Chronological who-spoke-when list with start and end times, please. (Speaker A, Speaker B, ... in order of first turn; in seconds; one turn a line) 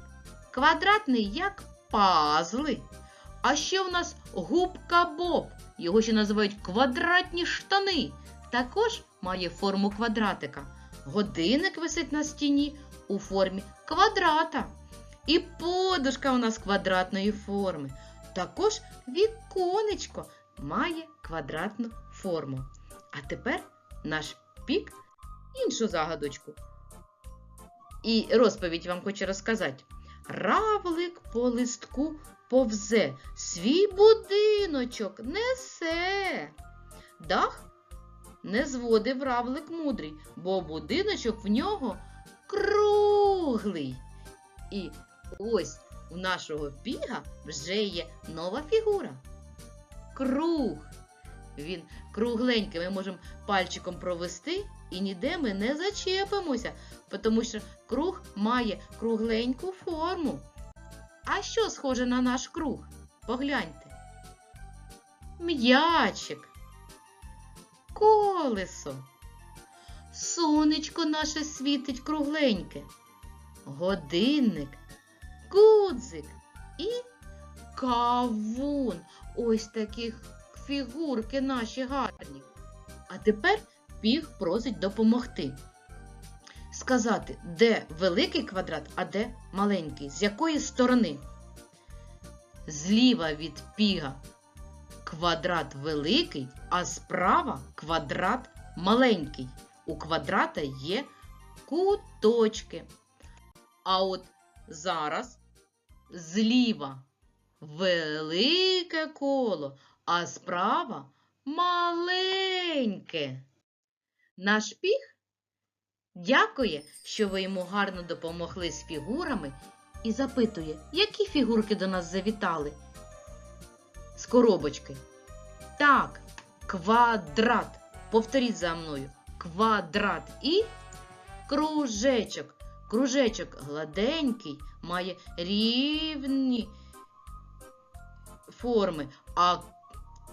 Speaker A: 0.5-2.9
Speaker A: 3.4-14.7
Speaker A: 15.3-25.0
Speaker A: 25.5-26.6
Speaker A: 28.0-36.5
Speaker A: 37.2-37.7
Speaker A: 38.4-44.0
Speaker A: 44.7-49.2
Speaker A: 50.1-50.9
Speaker A: 51.6-60.5
Speaker A: 61.3-64.0
Speaker A: 65.4-66.5
Speaker A: 67.9-69.1
Speaker A: 70.1-72.9
Speaker A: 73.7-74.8
Speaker A: 75.5-77.1
Speaker A: 77.7-82.5
Speaker A: 83.1-85.6
Speaker A: 86.7-91.2
Speaker A: 92.7-94.2
Speaker A: 95.0-101.1
Speaker A: 101.7-102.9
Speaker A: 103.8-105.4
Speaker A: 106.1-107.1
Speaker A: 107.6-113.4
Speaker A: 114.4-115.2
Speaker A: 116.2-122.8
Speaker A: 124.2-125.0
Speaker A: 125.8-130.7
Speaker A: 131.5-136.8
Speaker A: 138.5-139.7